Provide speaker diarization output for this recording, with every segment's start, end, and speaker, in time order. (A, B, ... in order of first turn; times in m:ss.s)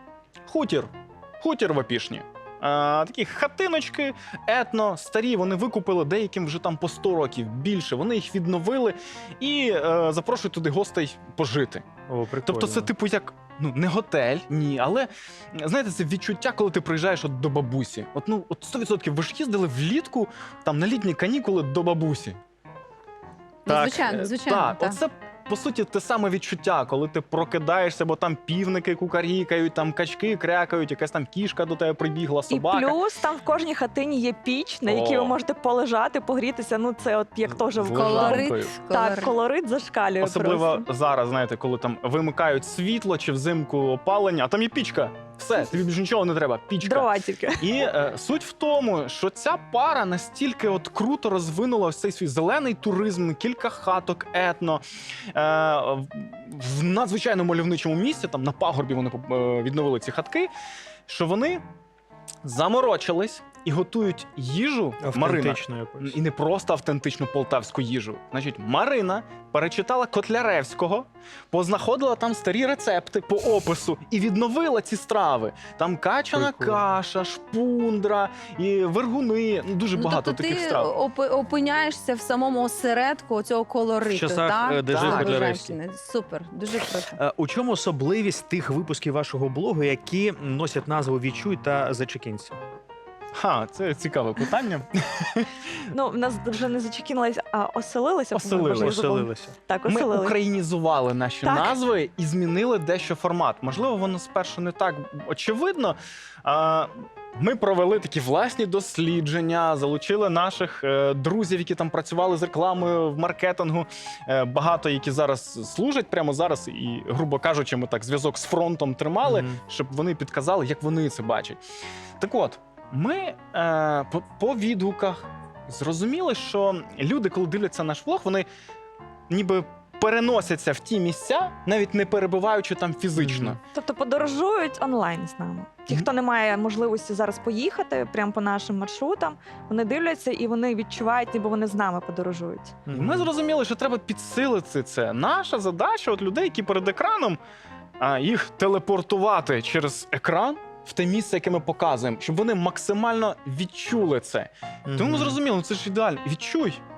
0:00.5-0:11.9 A
0:12.1-0:12.9 B
0:12.4-0:22.4 A
0:23.6-0:25.0 C
0:23.7-0:33.0 A
0:32.5-0:40.8 D
0:34.8-0:35.4 A
0:37.7-0:38.8 A
0:37.9-0:39.3 C
0:40.2-0:54.8 A
0:46.8-0:47.7 D
0:55.3-1:00.5 A
1:01.1-1:01.6 A
1:02.4-1:20.9 A
1:05.0-1:06.2 B
1:16.3-1:16.8 B
1:19.9-1:27.2 C
1:24.0-1:25.8 B
1:24.9-1:25.4 A
1:27.2-1:32.6 B
1:33.3-1:35.4 A
1:35.9-1:40.4 D
1:38.3-1:38.9 A
1:38.8-1:39.5 B
1:39.8-2:01.6 A
1:41.4-1:41.8 D
1:59.2-1:59.6 B
2:02.2-2:08.5 A
2:09.3-2:13.6 A
2:13.2-2:13.6 B
2:13.7-2:22.8 D
2:22.9-2:23.3 B
2:22.9-2:27.4 A
2:28.0-2:36.8 A
2:34.8-2:35.4 B